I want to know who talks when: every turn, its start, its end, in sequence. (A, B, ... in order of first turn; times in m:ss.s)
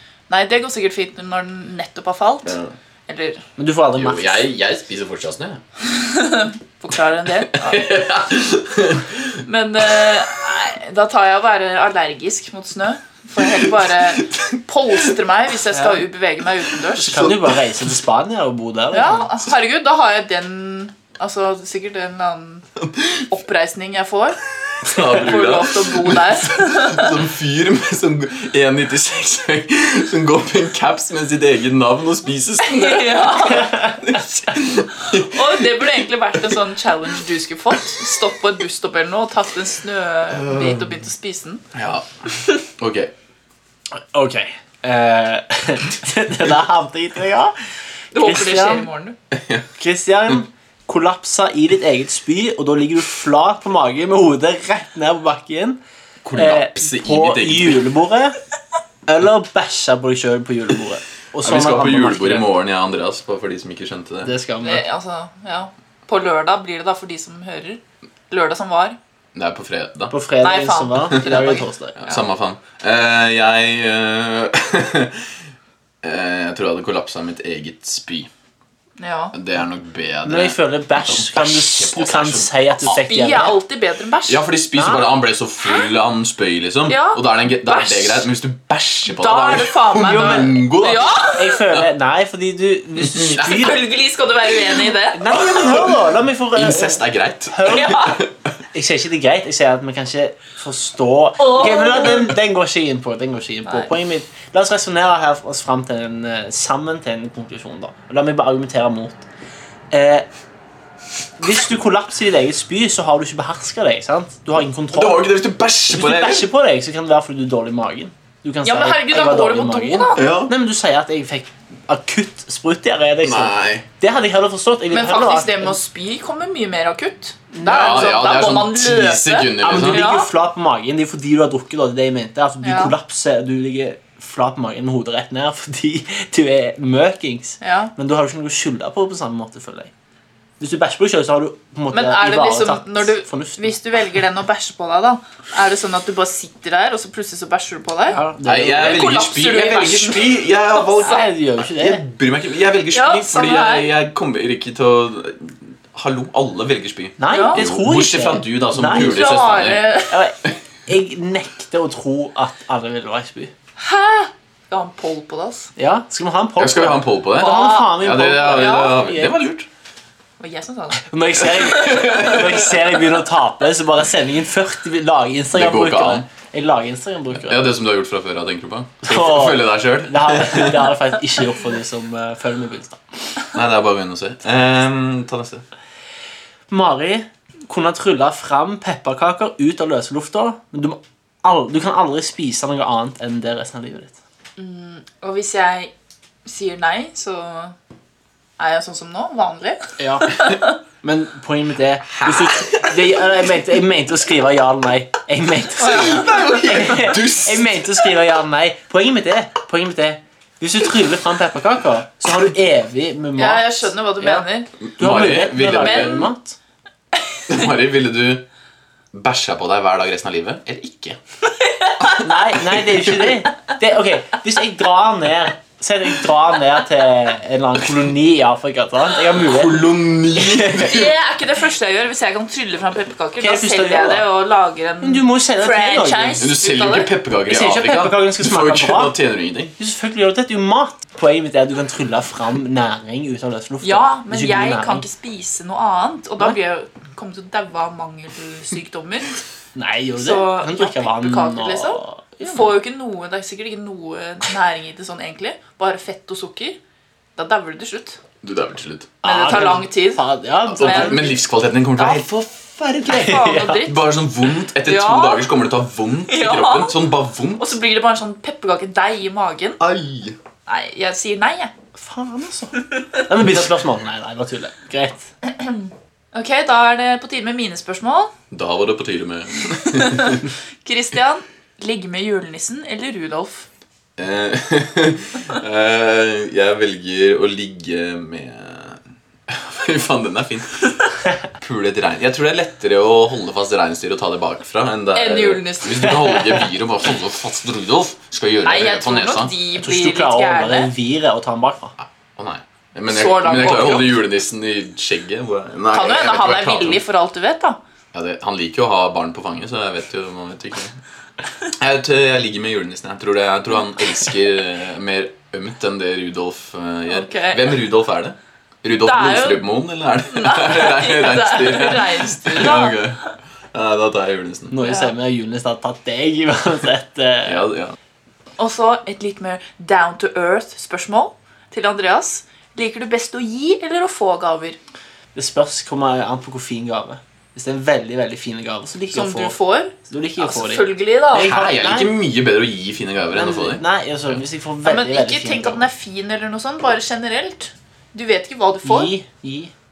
0:00.3-0:02.6 A
0:02.5-0:02.7 B
0:03.1-0:03.4 A
0:03.6-0:04.5 C
0:04.0-0:05.6 B
0:05.9-0:07.9 A
0:07.4-0:09.4 B
0:09.4-0:17.3 A
0:14.2-0:14.6 B
0:15.7-0:16.1 C
0:17.0-0:17.6 B
0:17.0-0:19.3 C
0:18.9-0:22.7 A
0:22.8-0:23.3 B
0:23.3-0:24.4 A
0:24.8-0:35.7 B
0:25.0-0:27.2 A
0:32.6-0:33.8 A
0:35.1-0:41.6 A
0:40.5-0:40.8 B
0:41.7-0:43.1 B
0:44.0-0:47.5 C
0:48.1-0:49.2 A
0:48.2-0:48.9 C
0:49.3-0:49.7 B
0:49.8-0:55.8 C
0:56.2-0:57.9 B
0:56.4-0:58.4 C
0:59.1-1:02.5 C
1:01.4-1:04.3 B
1:04.2-1:04.8 C
1:04.6-1:09.0 A
1:09.4-1:10.1 B
1:10.1-1:12.0 C
1:10.4-1:12.2 A
1:12.0-1:15.3 B
1:16.0-1:18.3 B
1:19.0-1:19.3 A
1:19.3-1:23.1 B
1:20.2-1:23.6 C
1:22.9-1:24.4 A
1:24.3-1:31.2 B
1:24.7-1:25.1 C
1:26.9-1:28.3 A
1:29.1-1:31.6 A
1:30.0-1:30.6 C
1:31.3-1:33.8 C
1:33.0-1:33.7 B
1:33.4-1:35.3 A
1:35.1-1:38.1 C
1:35.3-1:36.0 B
1:36.5-1:38.4 B
1:37.7-1:38.2 A
1:38.7-1:49.3 C
1:41.4-1:42.3 A
1:49.9-1:50.3 C
1:51.4-1:55.4 C
1:54.9-1:56.5 B
1:55.9-2:05.8 C
1:58.6-2:00.3 A
2:00.2-2:00.5 B
2:03.2-2:03.8 B
2:04.9-2:10.3 A
2:07.6-2:08.1 C
2:07.6-2:10.1 B
2:09.6-2:19.9 C
2:12.6-2:12.9 A
2:17.6-2:17.9 A
2:20.6-2:23.8 C
2:21.9-2:28.2 A
2:28.1-2:29.1 C
2:28.4-2:39.9 B
2:28.7-2:31.2 A
2:31.0-2:32.0 C
2:32.9-2:33.9 A
2:37.2-2:43.5 C
2:37.3-2:37.6 A
2:38.9-2:40.2 A
2:43.8-2:45.7 A
2:45.8-2:49.4 C
2:46.6-2:49.7 B
2:47.4-2:49.0 A
2:50.4-2:52.4 A
2:51.0-2:57.7 C
2:51.6-2:52.6 B
2:55.5-2:56.3 B
2:57.4-3:00.9 B
2:59.0-3:03.0 C
3:03.5-3:05.6 B
3:06.7-3:14.2 C
3:14.6-3:15.9 A
3:16.4-3:17.8 A
3:18.6-3:20.7 A
3:20.0-3:20.4 C
3:21.0-3:34.5 C
3:22.1-3:23.2 B
3:25.8-3:26.8 A
3:25.9-3:28.1 B
3:33.4-3:34.7 A
3:34.8-3:36.2 B
3:35.0-3:36.6 C
3:35.6-3:36.3 A
3:37.5-3:38.4 B
3:39.1-3:41.2 B
3:41.6-3:42.3 A
3:42.2-3:50.9 C
3:42.7-3:43.2 B
3:49.4-3:51.2 B
3:50.8-3:57.1 A
3:53.4-3:54.2 C
3:55.0-3:56.4 C
3:56.4-3:59.7 B
3:57.5-3:59.2 C
3:59.8-4:05.0 C
4:03.8-4:09.4 A
4:09.8-4:12.8 C
4:10.2-4:16.8 A
4:17.4-4:18.2 A
4:18.4-4:19.1 B
4:19.2-4:20.2 A
4:19.2-4:21.3 C
4:20.7-4:27.8 B
4:20.8-4:21.4 A
4:22.0-4:22.2 A
4:23.1-4:24.1 A
4:23.1-4:23.8 C
4:24.8-4:25.5 A
4:26.3-4:27.0 A
4:27.6-4:29.8 A
4:29.8-4:30.4 B
4:30.7-4:31.7 A
4:32.0-4:35.3 C
4:32.8-4:33.2 A
4:35.4-4:38.3 A
4:38.5-4:40.5 B
4:39.8-4:43.7 A
4:44.2-4:51.0 B
4:51.6-4:59.5 B
4:55.2-4:56.6 A
4:58.6-5:00.9 A
4:59.8-5:01.9 C
5:02.0-5:07.0 B
5:03.1-5:04.2 A
5:05.9-5:07.8 A
5:08.1-5:11.0 B
5:11.7-5:23.2 B
5:17.1-5:17.8 A
5:19.0-5:19.7 A
5:20.2-5:23.2 A
5:23.7-5:24.8 B
5:24.7-5:27.7 C
5:24.8-5:25.1 A
5:27.4-5:28.0 B
5:28.6-5:34.8 A
5:35.4-5:42.1 C
5:39.1-5:41.6 A
5:41.3-5:43.8 B
5:43.3-5:45.9 C
5:44.8-5:49.1 A
5:48.8-5:49.7 C